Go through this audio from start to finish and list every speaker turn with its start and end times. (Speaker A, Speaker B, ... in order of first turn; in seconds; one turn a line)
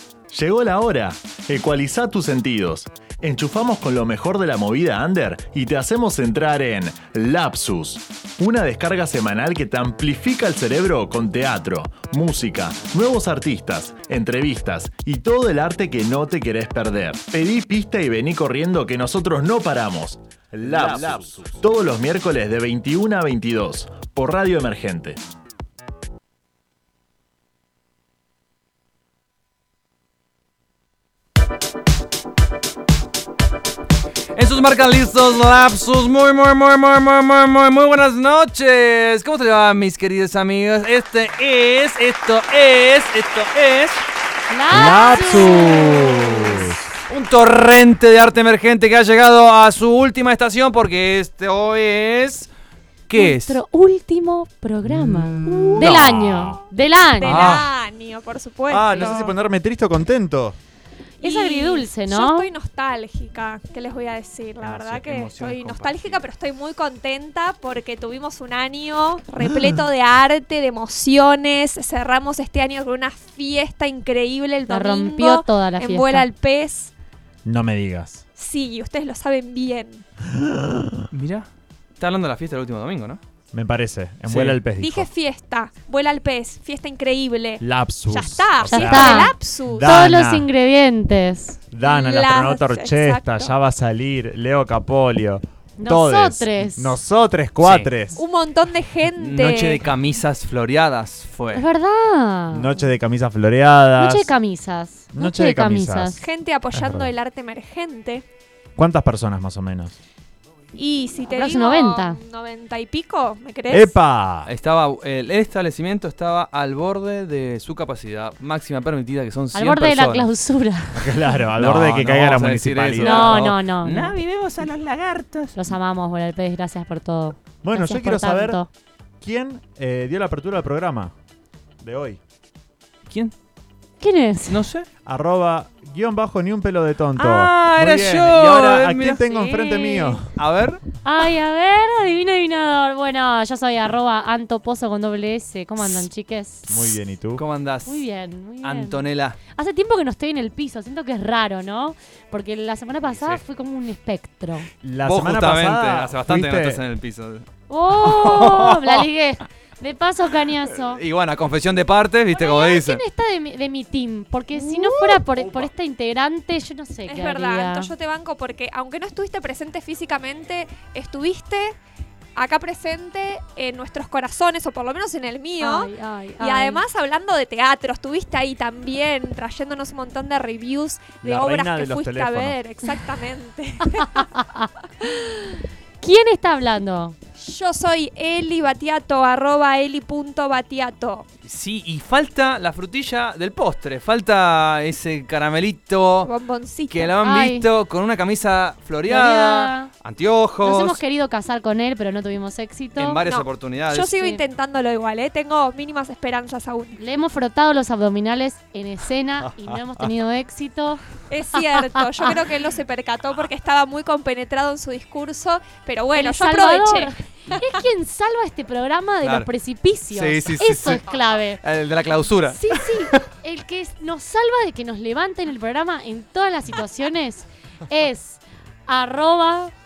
Speaker A: 0.3-25.2
Speaker B: 20.6-21.6
Speaker C: 34.3-44.0
Speaker D: 44.5-46.6
Speaker B: 44.7-46.8
Speaker C: 44.7-45.8
Speaker C: 47.1-52.5
Speaker C: 53.1-53.6
Speaker D: 53.1-57.5
Speaker B: 54.9-56.6
Speaker C: 55.4-55.9
Speaker E: 57.2-59.3
Speaker C: 57.2-57.6
Speaker B: 57.3-57.6
Speaker B: 58.7-60.6
Speaker E: 61.2-76.9
Speaker D: 61.2-62.5
Speaker B: 64.6-65.9
Speaker C: 64.8-66.2
Speaker B: 69.4-69.7
Speaker D: 74.7-76.3
Speaker B: 77.4-78.2
Speaker E: 78.4-80.0
Speaker B: 80.3-81.0
Speaker C: 81.1-83.2
Speaker B: 83.5-85.1
Speaker C: 84.3-84.6
Speaker E: 84.7-89.9
Speaker B: 87.6-90.5
Speaker D: 88.7-91.6
Speaker B: 91.7-98.2
Speaker E: 91.8-93.5
Speaker D: 95.8-97.0
Speaker C: 97.6-97.9
Speaker E: 98.1-99.8
Speaker C: 99.2-101.6
Speaker D: 101.5-102.7
Speaker B: 102.5-104.3
Speaker D: 104.0-106.2
Speaker B: 105.1-106.2
Speaker E: 106.2-108.2
Speaker B: 106.7-107.1
Speaker B: 108.8-110.0
Speaker E: 110.7-113.9
Speaker D: 111.3-112.2
Speaker B: 113.7-114.5
Speaker C: 114.5-120.3
Speaker D: 119.5-121.4
Speaker B: 121.0-123.5
Speaker C: 121.6-125.5
Speaker D: 123.0-124.1
Speaker D: 125.5-128.7
Speaker B: 127.6-128.6
Speaker B: 129.2-131.1
Speaker B: 131.8-132.2
Speaker D: 134.0-134.6
Speaker C: 134.5-134.9
Speaker B: 135.1-140.2
Speaker C: 137.2-139.2
Speaker D: 139.2-140.2
Speaker C: 140.3-140.8
Speaker D: 141.0-147.0
Speaker B: 146.7-147.4
Speaker C: 147.3-148.1
Speaker D: 147.8-149.0
Speaker C: 148.6-149.4
Speaker D: 149.5-154.7
Speaker B: 154.8-156.8
Speaker C: 155.1-157.5
Speaker D: 157.7-161.0
Speaker C: 158.0-159.0
Speaker C: 160.7-163.0
Speaker D: 162.3-167.9
Speaker C: 164.9-165.5
Speaker E: 167.1-171.8
Speaker E: 172.3-184.2
Speaker D: 175.6-176.8
Speaker B: 181.2-182.6
Speaker D: 183.9-187.2
Speaker E: 187.4-191.2
Speaker C: 191.4-196.3
Speaker E: 196.2-197.1
Speaker C: 196.9-201.0
Speaker D: 197.2-197.7
Speaker D: 199.1-199.9
Speaker D: 200.6-203.2
Speaker C: 202.9-204.2
Speaker E: 203.2-207.0
Speaker D: 207.0-211.0
Speaker C: 209.4-209.7
Speaker E: 211.3-217.7
Speaker D: 211.7-212.2
Speaker D: 216.1-221.6
Speaker C: 219.2-219.5
Speaker C: 220.1-223.2
Speaker D: 222.5-229.7